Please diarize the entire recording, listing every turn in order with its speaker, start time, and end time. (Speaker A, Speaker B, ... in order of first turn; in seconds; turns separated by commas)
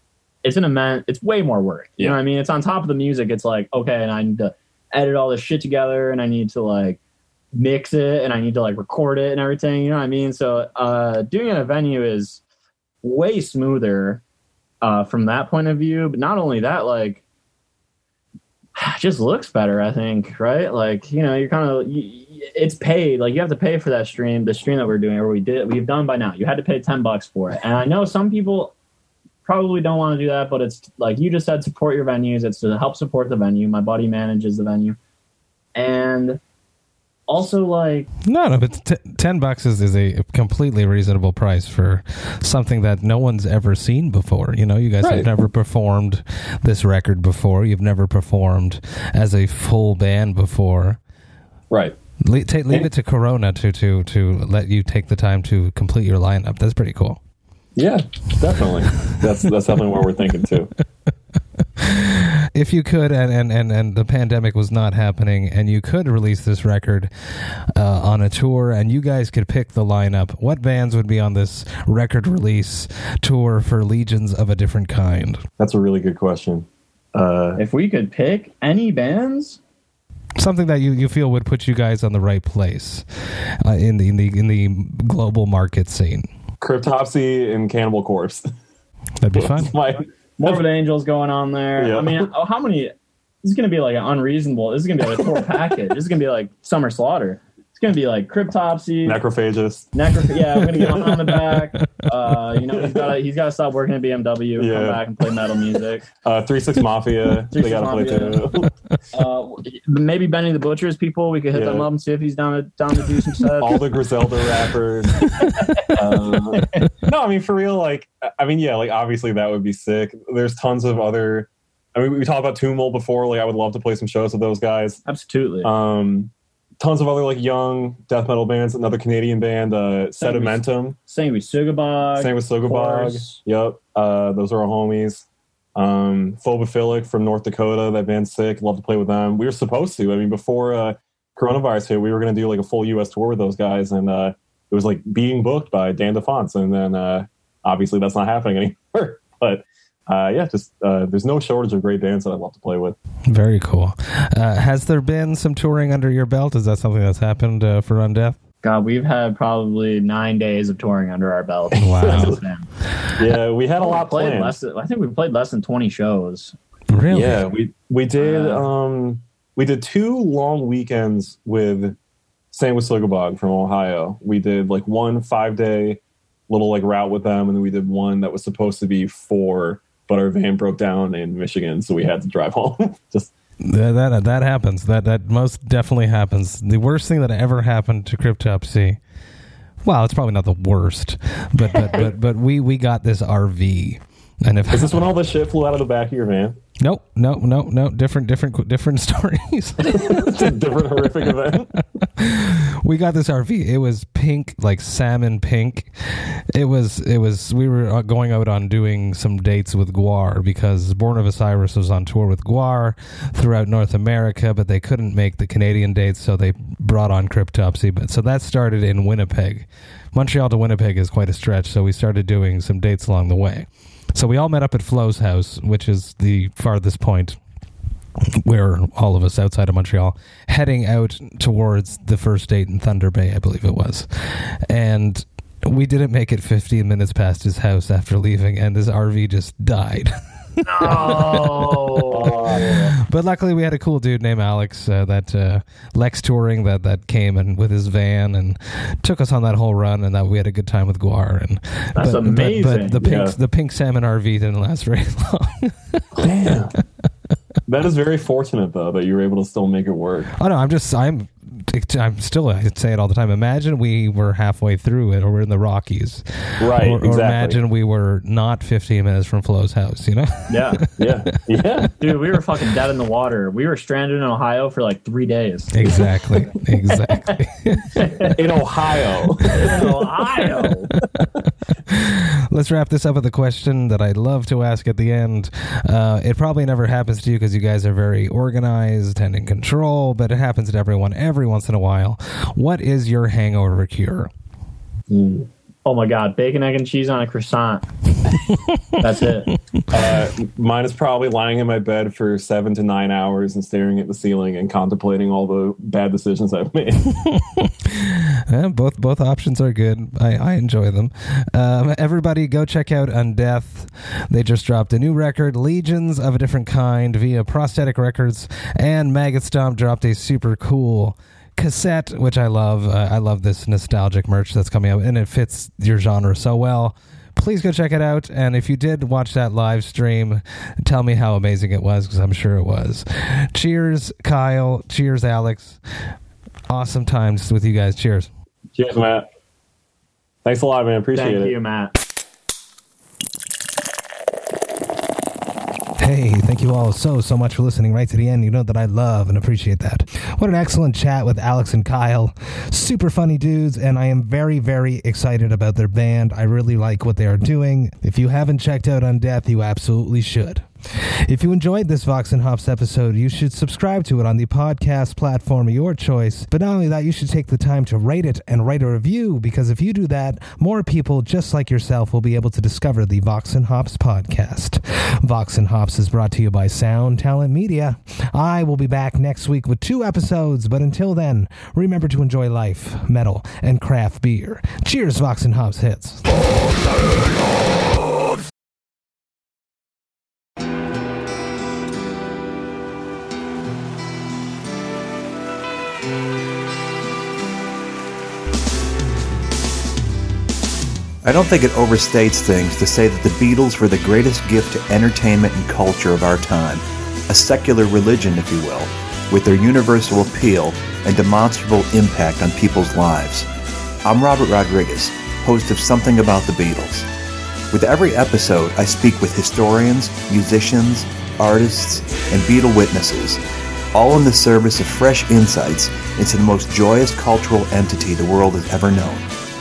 Speaker A: 0.4-7.0, Speaker A: 7.5-12.4, Speaker A: 13.0-14.2, Speaker A: 14.8-17.2, Speaker A: 18.8-28.7, Speaker A: 29.4-35.0, Speaker A: 35.7-36.4, Speaker A: 37.3-38.1, Speaker B: 38.2-51.0, Speaker C: 45.0-45.3, Speaker C: 51.7-52.0, Speaker B: 52.2-57.2, Speaker C: 57.8-60.7, Speaker B: 61.8-67.1, Speaker B: 67.7-75.4, Speaker C: 75.6-77.6, Speaker A: 77.5-79.6, Speaker B: 80.4-83.0, Speaker B: 83.6-86.3, Speaker C: 86.6-88.5, Speaker B: 89.2-89.7, Speaker C: 89.3-90.6, Speaker A: 90.4-99.2, Speaker C: 91.8-92.3, Speaker C: 99.0-99.9, Speaker A: 99.9-106.0, Speaker C: 100.5-101.3, Speaker C: 102.7-103.2, Speaker C: 104.6-105.0, Speaker C: 106.2-108.7, Speaker A: 107.5-108.4, Speaker A: 109.1-113.8, Speaker C: 111.5-111.9, Speaker C: 113.6-115.3, Speaker A: 115.6-115.9, Speaker C: 115.9-125.0, Speaker A: 116.6-116.8, Speaker A: 125.0-125.7, Speaker C: 125.6-130.9, Speaker A: 130.2-133.4, Speaker C: 132.2-135.2, Speaker C: 135.8-152.9, Speaker B: 153.3-158.4, Speaker A: 158.6-162.7, Speaker C: 161.7-162.4, Speaker B: 161.8-162.4, Speaker C: 163.2-164.6, Speaker A: 163.8-166.5, Speaker B: 166.9-167.4, Speaker C: 167.1-171.9, Speaker A: 168.2-168.7, Speaker C: 172.5-183.3, Speaker B: 183.6-189.0, Speaker B: 189.8-195.0, Speaker C: 191.7-192.1, Speaker C: 194.7-196.6, Speaker B: 196.8-200.6, Speaker C: 199.8-201.8, Speaker B: 202.2-227.4, Speaker B: 228.3-241.8, Speaker A: 240.6-242.9, Speaker C: 242.1-242.9, Speaker B: 243.0-256.3, Speaker A: 251.9-253.0, Speaker C: 253.0-253.3, Speaker C: 256.1-256.7, Speaker C: 257.6-260.3, Speaker B: 260.4-271.2, Speaker C: 266.6-267.6, Speaker A: 270.5-270.8, Speaker C: 271.0-272.0, Speaker A: 272.0-277.4, Speaker B: 275.7-278.3, Speaker A: 277.9-278.3, Speaker C: 278.3-279.8, Speaker A: 279.5-280.9, Speaker B: 281.9-294.3, Speaker C: 295.1-295.5, Speaker A: 295.8-297.8, Speaker A: 299.0-299.5, Speaker C: 299.9-307.1, Speaker B: 307.2-335.8, Speaker B: 336.7-338.3, Speaker C: 338.7-339.2, Speaker C: 340.4-341.5, Speaker A: 341.1-341.9, Speaker D: 346.0-386.2, Speaker E: 401.2-413.5, Speaker E: 414.0-417.1, Speaker E: 417.7-423.4, Speaker E: 423.9-429.2